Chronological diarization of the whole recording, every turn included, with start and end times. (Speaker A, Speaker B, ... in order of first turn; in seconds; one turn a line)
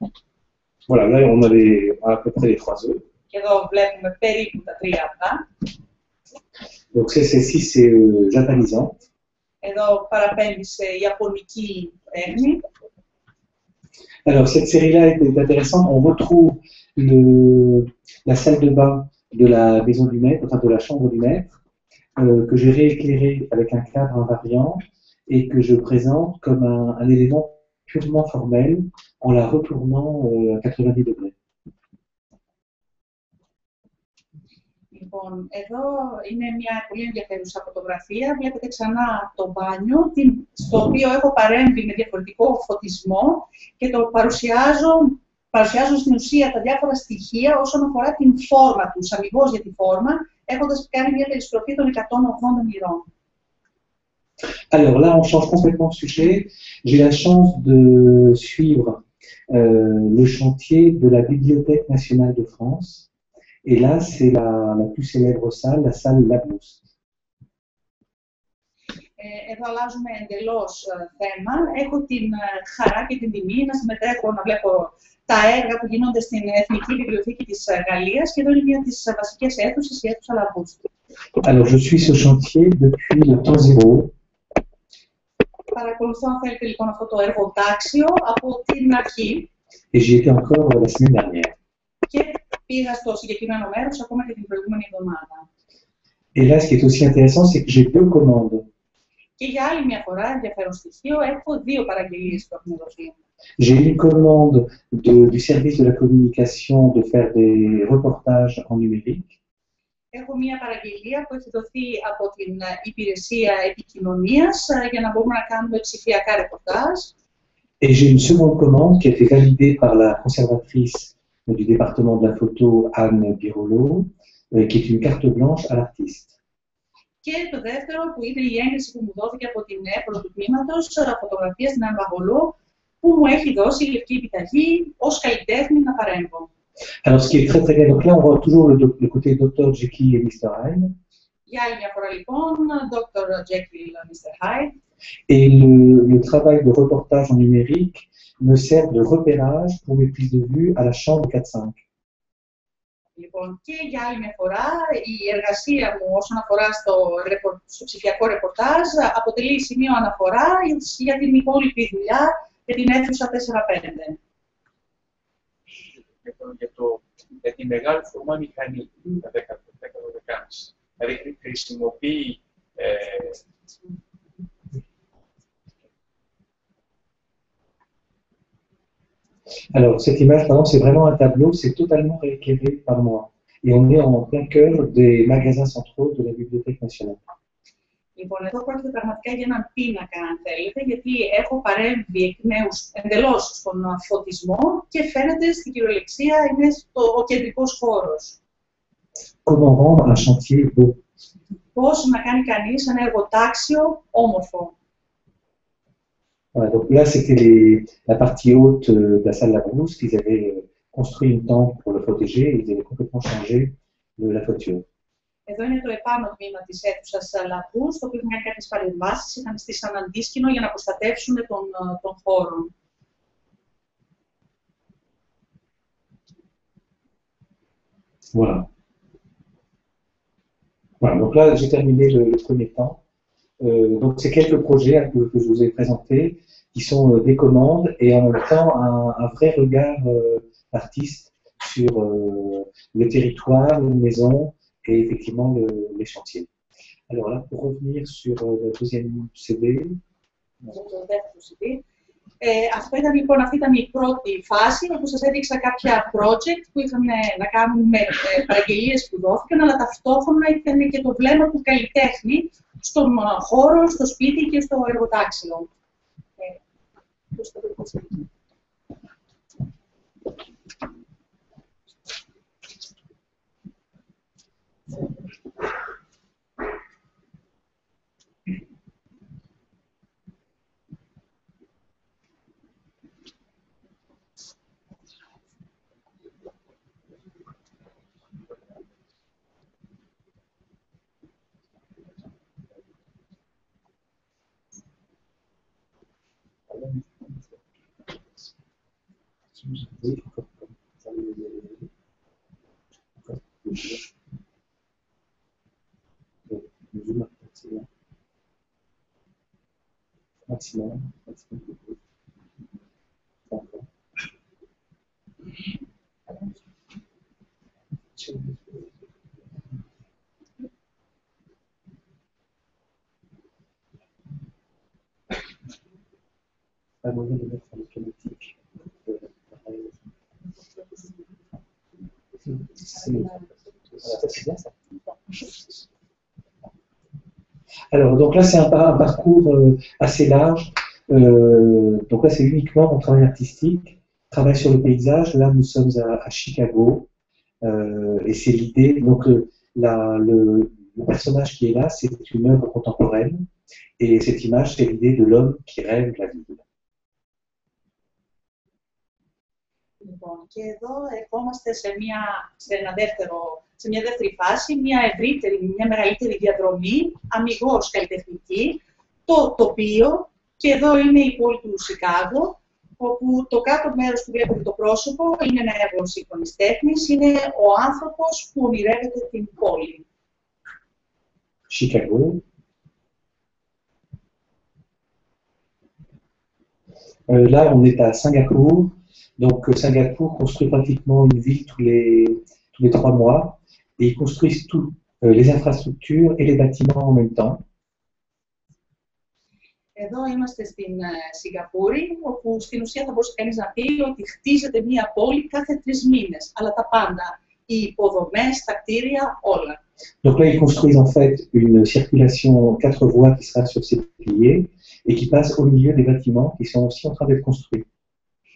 Speaker A: 0.9-3.0
Speaker B: 3.3-5.5
Speaker A: 6.9-9.0
Speaker B: 9.6-12.7
Speaker A: 14.2-21.6
Speaker A: 22.2-31.4
Speaker B: 34.9-53.1
Speaker A: 54.7-63.1
Speaker A: 63.6-66.8
Speaker B: 69.2-80.9
Speaker A: 81.4-84.1
Speaker B: 85.7-89.5
Speaker A: 89.9-91.6
Speaker B: 92.1-95.5
Speaker A: 96.3-98.7
Speaker B: 99.4-103.2
Speaker A: 103.6-109.4
Speaker B: 110.1-117.1
Speaker A: 117.8-126.3
Speaker B: 127.2-136.5
Speaker A: 137.0-140.9
Speaker B: 141.5-144.8
Speaker A: 145.3-151.8
Speaker B: 153.2-164.2
Speaker C: 166.2-173.4
Speaker A: 179.7-187.2
Speaker B: 188.2-198.4
Speaker A: 199.4-201.0
Speaker B: 201.8-204.7
Speaker A: 206.5-214.9
Speaker B: 215.5-222.7
Speaker A: 228.3-228.7
Speaker A: 231.0-233.0
Speaker A: 233.6-246.5
Speaker A: 247.1-250.0
Speaker B: 250.7-251.8
Speaker B: 252.4-265.7
Speaker B: 267.3-268.3
Speaker A: 296.8-297.1
Speaker A: 299.6-301.9
Speaker A: 303.2-304.0
Speaker A: 306.5-307.9
Speaker A: 310.5-311.9
Speaker A: 313.5-313.9
Speaker A: 318.2-318.9
Speaker A: 327.0-330.0
Speaker A: 332.8-333.3
Speaker B: 333.1-333.4
Speaker A: 334.0-334.7
Speaker A: 337.9-347.1
Speaker A: 347.6-353.5
Speaker A: 354.0-356.6
Speaker B: 360.0-380.1
Speaker A: 381.7-382.4
Speaker A: 387.3-397.6
Speaker B: 400.0-409.8
Speaker A: 410.2-417.9